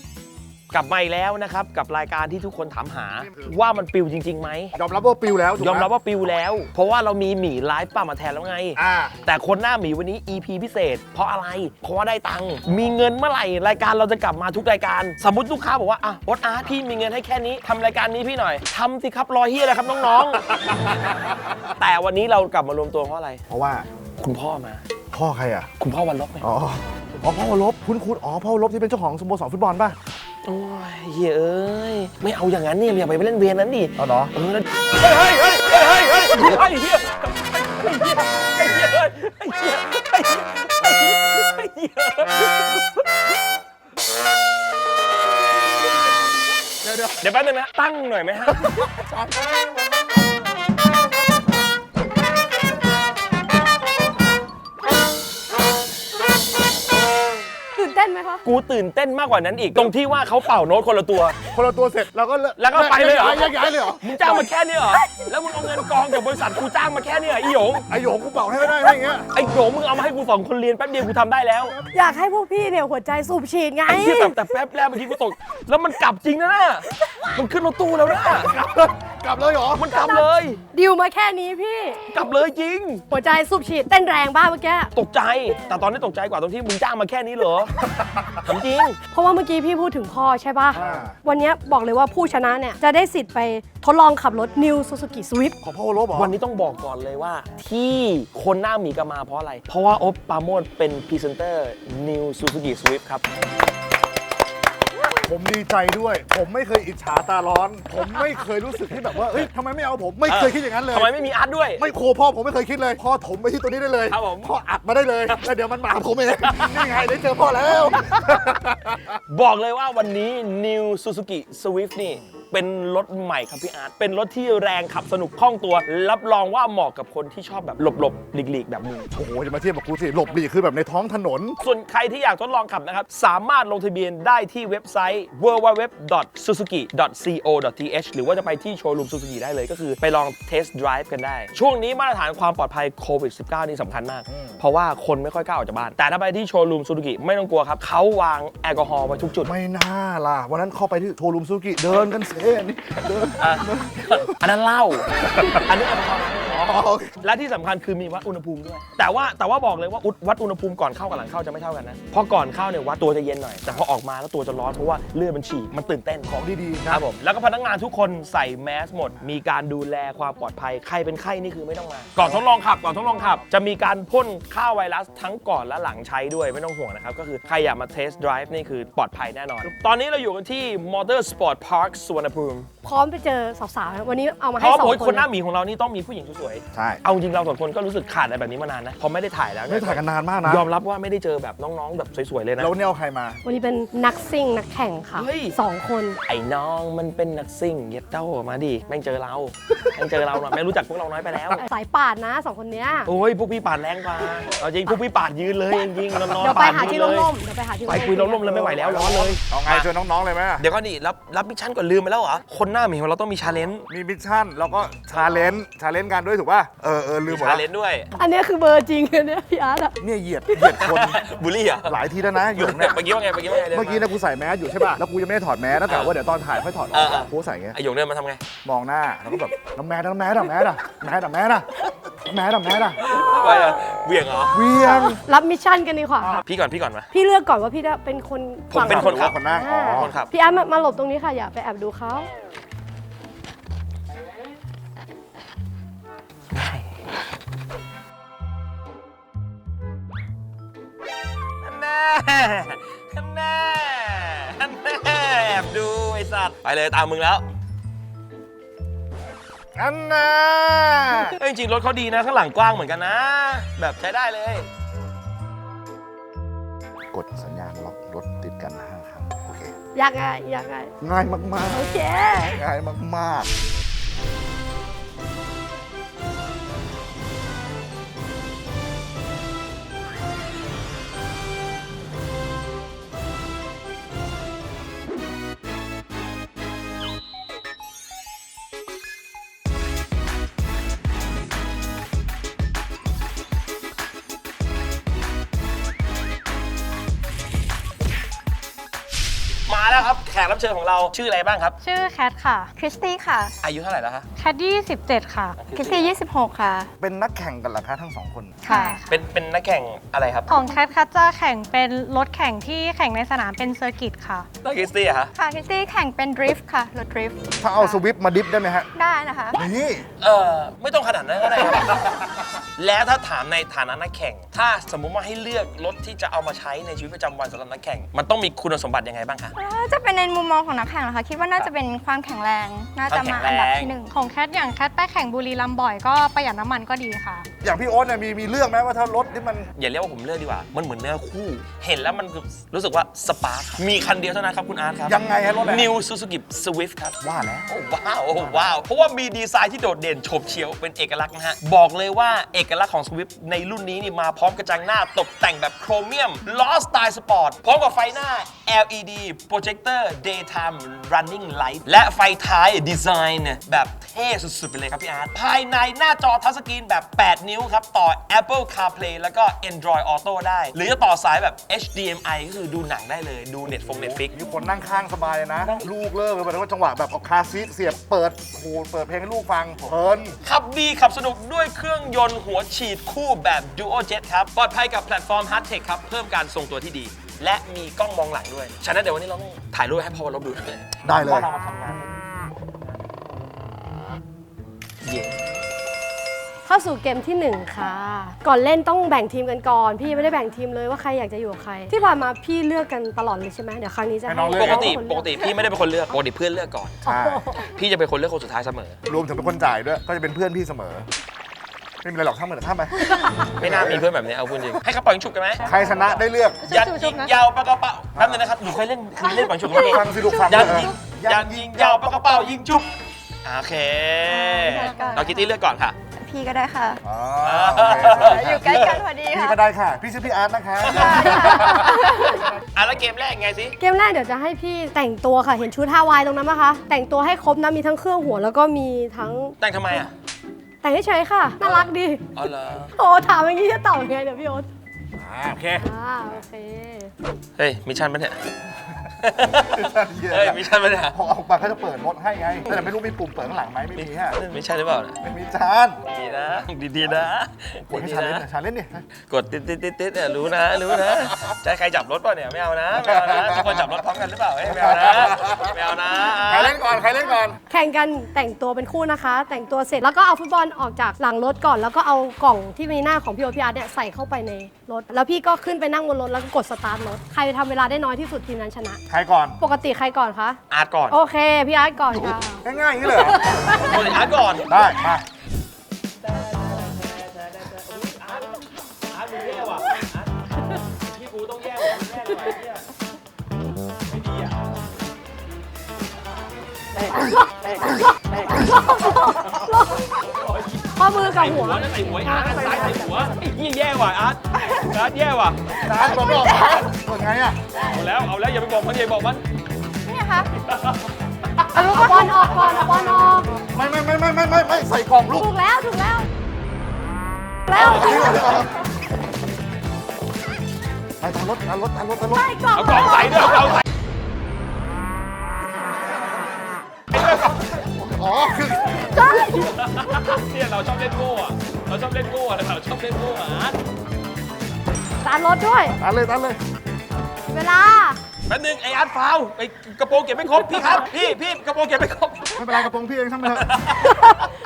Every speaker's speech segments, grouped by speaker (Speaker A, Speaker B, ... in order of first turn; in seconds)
Speaker A: 0.7-4.7, 5.6-20.5, 21.8-23.4, 24.2-24.8, 25.8-26.5, 30.4-42.9, 47.2-48.7, 58.4-61.4, 62.6-63.5, 64.0-67.8, 69.3-71.8, 73.9-78.5, 79.7-80.6, 82.1-83.0, 84.9-87.7, 88.4-89.0, 96.1-103.2, 110.3-111.8, 114.1-114.5, 116.5-116.8, 119.3-129.1, 131.6-149.5, 153.4-166.4, 166.9-182.7, 184.6-192.7, 195.1-195.6, 196.3-201.6, 203.1-207.3, 207.9-209.9, 210.6-213.8, 215.1-215.5, 217.3-218.1, 220.8-222.0, 222.6-224.1, 225.9-226.1, 226.9-228.4, 233.0-234.6, 236.4-237.1, 238.7-240.3, 246.5-246.8, 251.6-257.4, 261.4-264.7, 299.7-301.8, 303.6-304.3, 305.6-306.1, 309.1-310.5, 314.6-315.3, 320.2-329.5, 333.1-333.9, 339.8-374.3, 375.6-375.9, 380.4-392.0, 395.0-395.3, 404.6-407.0, 407.6-409.0, 413.6-415.6, 416.6-422.9, 423.4-425.9, 427.4-429.0, 430.8-433.8, 439.6-440.1, 441.6-442.9, 447.6-448.4, 449.2-451.1, 453.9-455.2, 456.1-458.4, 459.3-466.7, 480.7-481.2, 483.7-484.7, 486.2-492.8, 494.1-494.7, 499.6-505.6, 507.9-509.4, 510.7-510.9, 511.8-512.7, 517.7-518.6, 522.7-523.8, 527.1-527.8, 529.0-533.8, 538.5-542.7, 543.5-544.4
Speaker B: 4.7-5.9, 8.8-9.2, 23.5-23.9, 25.1-25.7, 26.4-30.0, 34.0-34.3, 46.8-47.2, 48.6-49.4, 61.5-64.0, 67.9-69.3, 78.4-79.9, 87.9-88.4, 90.7-91.1, 95.6-96.3, 105.2-111.1, 111.8-119.1, 129.1-131.6, 144.3-144.6, 149.4-154.3, 155.3-155.6, 156.6-157.2, 166.3-167.0, 186.7-187.0, 189.7-190.7, 192.6-193.4, 208.7-210.6, 213.9-217.6, 220.0-221.2, 221.8-223.0, 223.7-227.8, 228.6-231.7, 232.2-233.0, 234.5-235.2, 238.8-240.1, 259.7-261.4, 267.1-269.7, 271.0-271.9, 272.4-273.5, 307.0-308.6, 317.6-318.9, 319.5-320.1, 337.6-339.7, 345.1-345.9, 347.2-347.7, 374.2-380.4, 391.0-391.5, 404.2-405.0, 407.0-407.4, 409.1-411.1, 412.0-414.0, 415.6-416.6, 418.1-418.4, 419.6-422.8, 427.0-432.1, 445.1-445.8, 449.6-454.4, 455.2-456.0, 457.9-459.0, 463.0-463.9, 464.6-465.8, 466.3-467.6, 479.1-479.6, 482.6-483.6, 484.7-485.2, 505.8-507.6, 513.7-515.5, 517.7-518.7, 521.2-522.6, 527.8-529.2, 536.0-536.6, 542.5-543.7
Speaker C: 57.7-58.4, 71.9-74.3, 80.7-82.0, 83.1-84.9, 89.1-95.6, 182.8-185.2, 193.4-196.2, 201.6-203.1, 206.4-209.1, 218.1-220.0, 234.8-236.4, 237.1-242.3, 269.9-270.9, 271.7-272.6, 396.6-405.5, 407.1-407.6, 431.7-432.4, 433.8-439.6, 440.8-442.2, 442.9-444.7, 445.8-447.1, 467.7-479.0, 479.6-480.6, 481.1-484.0, 498.6-500.1, 500.9-502.8, 511.7-513.5, 515.4-516.3, 517.7-518.1, 522.3-523.4, 529.1-529.7, 535.2-536.0, 537.5-538.2
Speaker D: 301.8-302.7, 304.4-305.6, 308.7-309.1, 310.5-314.5, 334.1-337.5, 416.6-417.3, 424.6-425.3
Speaker E: 302.8-303.5, 305.7-306.9, 308.6-309.0, 315.4-317.9, 318.9-319.6, 329.6-334.1, 424.3-425.3, 426.1-427.0, 428.1-429.6, 430.9-431.9, 505.8-506.9, 510.0-510.5